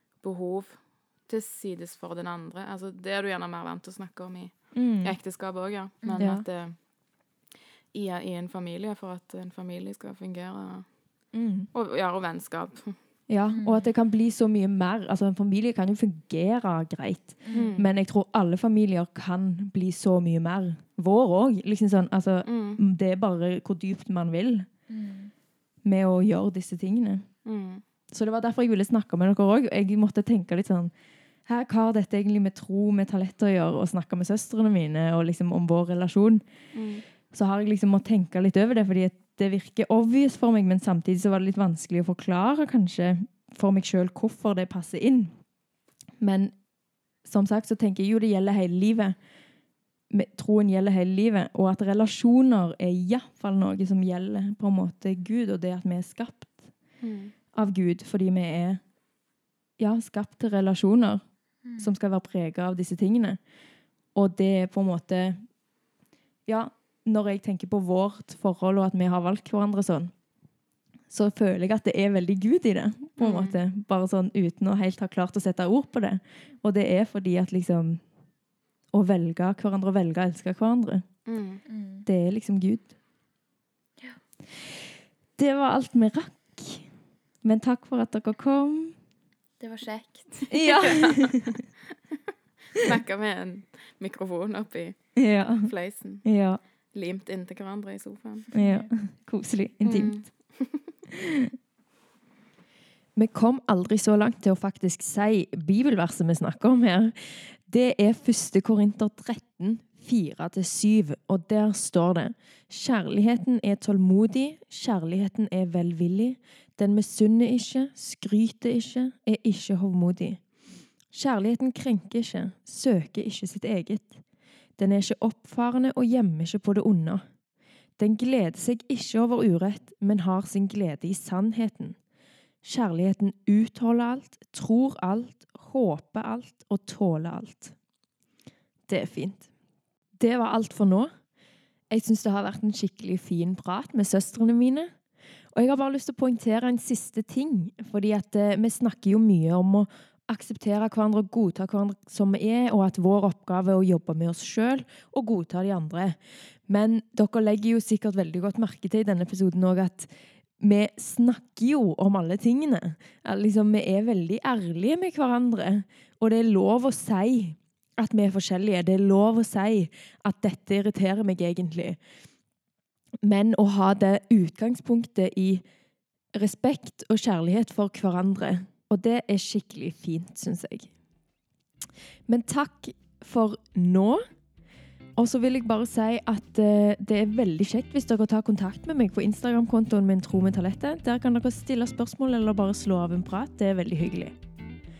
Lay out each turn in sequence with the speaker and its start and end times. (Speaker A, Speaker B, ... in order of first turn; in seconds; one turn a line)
Speaker A: 0.2-6.8
Speaker B: 4.7-5.2
Speaker B: 6.2-6.4
Speaker A: 7.9-11.0
Speaker B: 11.3-11.7
Speaker A: 11.7-12.9
Speaker B: 13.3-24.7
Speaker C: 13.5-13.9
Speaker C: 17.4-17.8
Speaker A: 17.5-17.9
Speaker A: 22.4-22.8
Speaker C: 24.9-25.3
Speaker B: 25.8-27.2
Speaker A: 27.4-27.8
Speaker B: 28.1-30.9
Speaker B: 31.4-36.4
Speaker A: 36.7-37.0
Speaker B: 37.3-45.4
Speaker B: 46.2-46.6
Speaker B: 47.2-49.1
Speaker B: 50.1-56.8
Speaker A: 57.0-57.3
Speaker B: 57.5-58.8
Speaker B: 59.8-61.2
Speaker C: 61.6-61.9
Speaker B: 61.8-63.4
Speaker B: 64.1-65.5
Speaker B: 66.5-70.1
Speaker B: 71.1-78.0
Speaker A: 73.2-73.5
Speaker B: 78.9-81.1
Speaker A: 81.2-81.6
Speaker C: 81.7-82.1
Speaker B: 82.0-82.9
Speaker B: 85.4-86.9
Speaker B: 87.4-89.0
Speaker C: 89.6-90.9
Speaker B: 90.5-91.6
Speaker A: 90.8-91.3
Speaker A: 92.8-96.3
Speaker B: 95.2-96.6
Speaker A: 96.9-98.5
Speaker B: 98.5-100.6
Speaker C: 98.5-98.9
Speaker A: 99.8-100.8
Speaker B: 101.1-101.5
Speaker B: 103.2-120.5
Speaker B: 121.1-124.2
Speaker B: 124.8-127.2
Speaker B: 128.0-132.0
Speaker B: 132.6-137.7
Speaker B: 138.9-139.5
Speaker B: 140.1-141.1
Speaker B: 141.9-144.9
Speaker B: 145.5-172.0
Speaker B: 173.2-175.6
Speaker B: 176.3-180.9
Speaker B: 182.3-184.2
Speaker B: 185.2-194.3